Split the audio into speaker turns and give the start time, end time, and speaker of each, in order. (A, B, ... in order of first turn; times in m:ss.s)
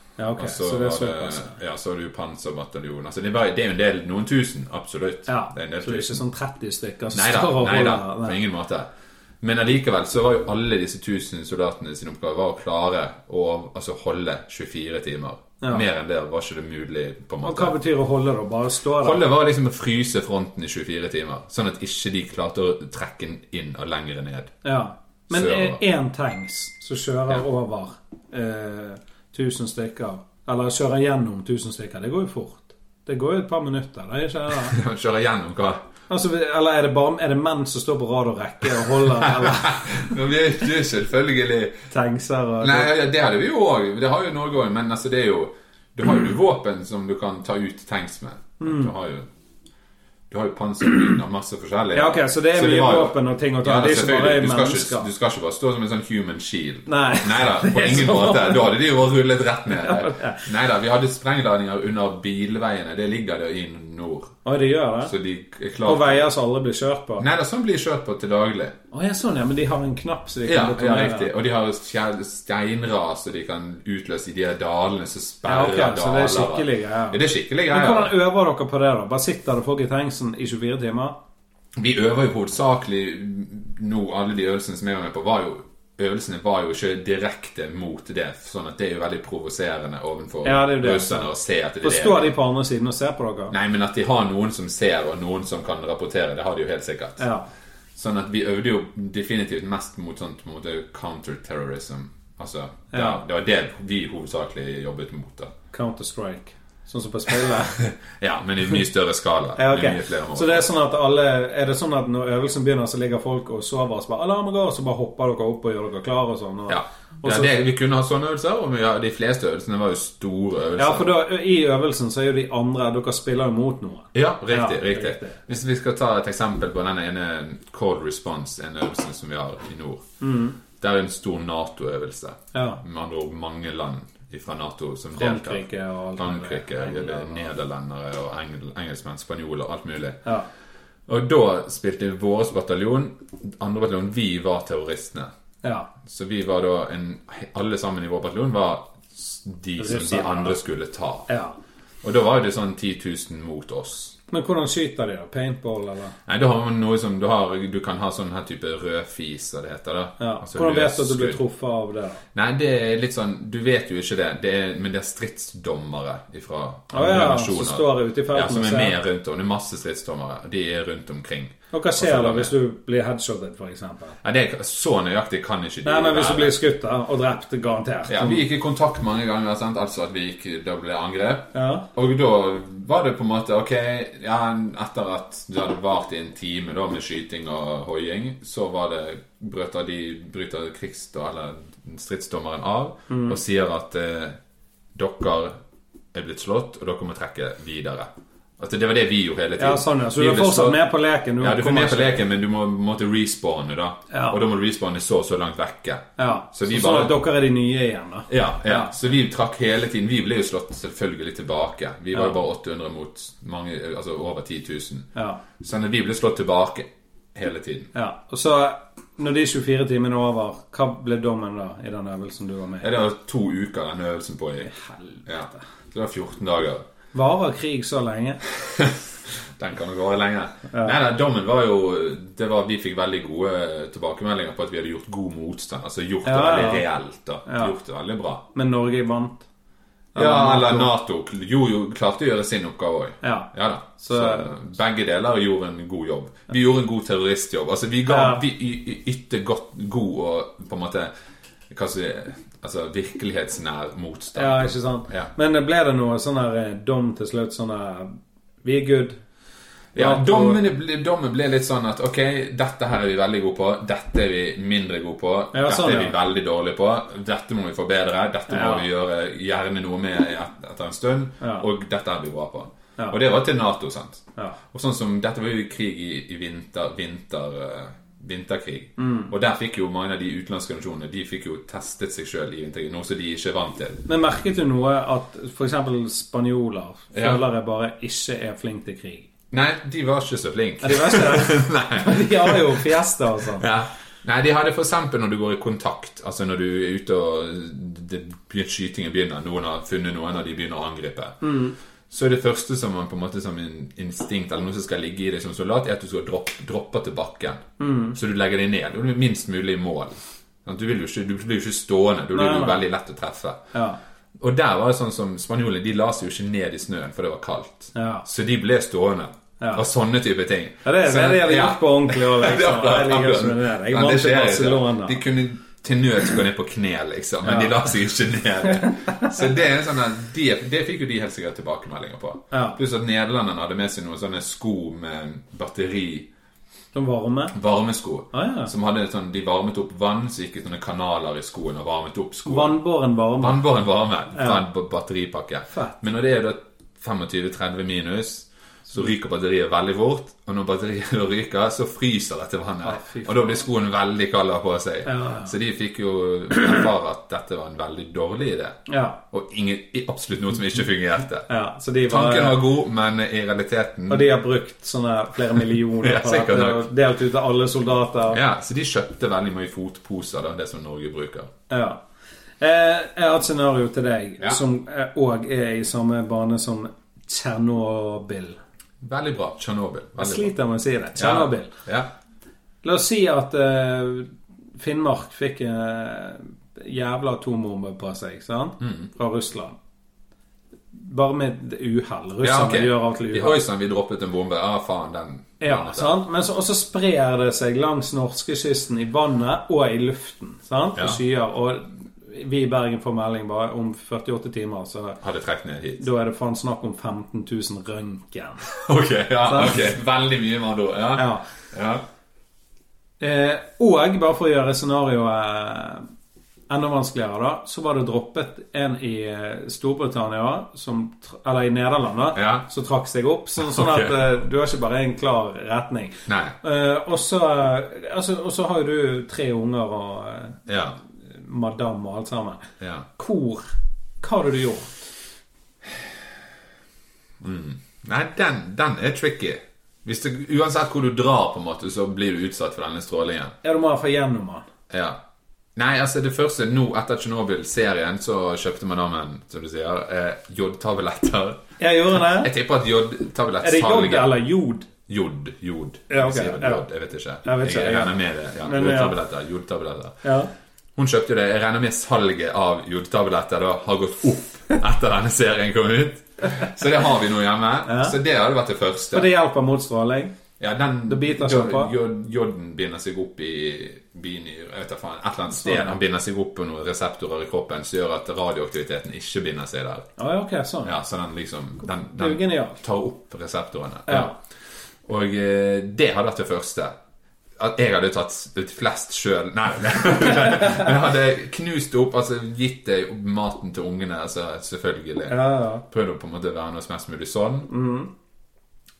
0:00.2-0:01.6 A
0:00.4-0:06.2 B
0:05.3-0:08.4 A
0:07.1-0:08.9 B
0:09.4-0:17.8 B
0:17.4-0:19.2 A
0:19.0-0:24.5 B
0:24.6-0:34.8 A
0:25.3-0:25.8 B
0:34.5-0:35.8 B
0:36.1-0:40.1 A
0:39.0-0:41.8 B
0:41.9-0:42.9 A
0:42.6-0:49.3 B
0:48.6-0:48.9 A
0:50.3-1:04.4 B
0:51.9-0:55.1 A
0:56.9-0:58.7 A
0:59.7-1:00.5 A
1:04.4-1:05.1 A
1:05.0-1:06.3 B
1:05.8-1:07.3 A
1:07.2-1:08.8 B
1:08.9-1:11.3 A
1:10.5-1:18.2 B
1:15.4-1:21.2 A
1:21.8-1:32.3 B
1:30.4-1:31.3 A
1:31.8-1:33.5 A
1:33.5-1:37.2 B
1:37.2-1:37.5 A
1:38.0-1:45.5 B
1:42.9-1:43.2 A
1:45.7-1:47.8 A
1:47.5-1:50.7 B
1:49.6-1:57.5 A
1:56.7-2:01.1 B
2:00.8-2:05.4 A
2:04.1-2:10.0 B
2:10.2-2:10.6 A
2:10.7-2:15.6 B
2:12.5-2:12.8 A
2:15.2-2:17.5 A
2:16.2-2:20.2 B
2:21.1-2:25.3 B
2:25.6-2:25.9 A
2:26.0-2:31.3 B
2:29.8-2:30.6 A
2:31.3-2:31.6 A
2:32.0-2:34.2 B
2:34.3-2:36.2 A
2:36.3-2:41.4 B
2:40.2-2:42.2 A
2:42.3-2:52.5 B
2:46.9-2:49.0 A
2:51.7-2:54.2 A
2:54.2-2:56.5 B
2:55.8-2:58.4 A
2:58.1-3:14.4 B
3:01.5-3:01.9 A
3:13.1-3:13.4 A
3:15.0-3:15.6 B
3:16.1-3:20.8 B
3:19.6-3:22.2 A
3:21.4-3:27.2 B
3:24.1-3:24.4 A
3:26.2-3:28.9 A
3:28.3-3:35.1 B
3:35.2-3:35.4 A
3:35.6-3:37.9 B
3:37.9-3:42.9 A
3:42.8-3:44.7 B
3:44.7-3:45.6 A
3:45.3-3:46.8 B
3:47.1-3:48.4 A
3:48.5-3:58.4 B
3:50.7-3:51.0 A
3:56.2-3:56.9 A
3:57.5-3:57.7 A
3:58.5-3:59.5 A
4:00.2-4:00.9 A
4:00.2-4:11.1 B
4:03.2-4:04.6 A
4:08.1-4:08.4 A
4:11.7-4:14.6 B
4:14.4-4:19.2 A
4:19.9-4:44.0 B
4:20.0-4:20.6 A
4:25.5-4:26.2 A
4:28.5-4:28.9 A
4:31.4-4:31.7 A
4:39.0-4:39.3 A
4:44.1-4:49.3 A
4:47.1-4:47.4 B
4:49.5-4:53.0 B
4:50.8-4:53.7 A
4:53.6-5:01.4 B
5:01.4-5:01.7 A
5:02.1-5:07.6 B
5:07.8-5:08.2 A
5:08.1-5:13.6 B
5:12.3-5:12.8 A
5:13.7-5:14.0 A
5:14.4-5:36.3 B
5:18.0-5:18.3 A
5:19.6-5:19.8 A
5:20.8-5:25.2 A
5:27.4-5:27.9 A
5:28.6-5:29.5 A
5:32.5-5:32.8 A
5:36.9-5:37.6 A
5:37.5-5:42.8 B
5:38.3-5:38.7 A
5:42.5-5:43.6 A
5:43.4-5:58.8 B
5:44.3-5:44.6 A
5:52.8-5:53.6 A
5:55.1-5:55.5 A
5:58.9-5:59.2 A
5:59.3-6:01.5 B
6:01.5-6:02.6 A
6:02.1-6:04.3 B
6:04.1-6:08.4 A
6:05.5-6:06.8 B
6:08.3-6:11.5 B
6:11.7-6:12.0 A
6:12.6-6:18.6 A
6:19.0-6:20.5 B
6:20.2-6:21.7 A
6:21.2-6:22.1 B
6:22.8-6:29.8 A
6:28.8-6:29.1 B
6:30.9-6:33.6 A
6:32.4-6:36.2 B
6:35.6-6:45.2 A
6:45.2-6:46.0 B
6:46.0-6:48.7 A
6:48.7-6:52.0 B
6:49.4-6:49.8 A
6:51.2-6:51.5 A
6:53.2-6:56.0 A
6:56.7-7:10.6 A
7:02.4-7:02.7 B
7:03.6-7:04.2 B
7:06.3-7:06.6 B
7:10.7-7:11.0 B
7:11.3-7:13.7 A
7:12.8-7:13.1 B
7:14.2-7:15.1 A
7:17.4-7:23.6 B
7:23.6-7:24.7 A
7:24.9-7:25.2 B
7:25.8-7:34.4 B
7:31.8-7:32.5 A
7:33.6-7:34.9 A
7:35.1-7:40.2 B
7:36.1-7:36.8 A
7:37.4-7:39.2 A
7:40.2-7:40.5 A
7:41.0-7:49.3 B
7:47.9-7:48.2 A
7:49.1-7:50.3 A
7:50.6-8:00.1 B
7:51.1-7:51.9 A
7:55.5-7:56.0 A
8:00.2-8:00.9 A
8:00.8-8:04.3 B
8:02.2-8:02.8 A
8:04.1-8:04.4 A
8:05.1-8:07.0 B
8:07.6-8:17.7 B
8:10.5-8:10.9 A
8:15.3-8:15.8 A
8:17.7-8:18.1 A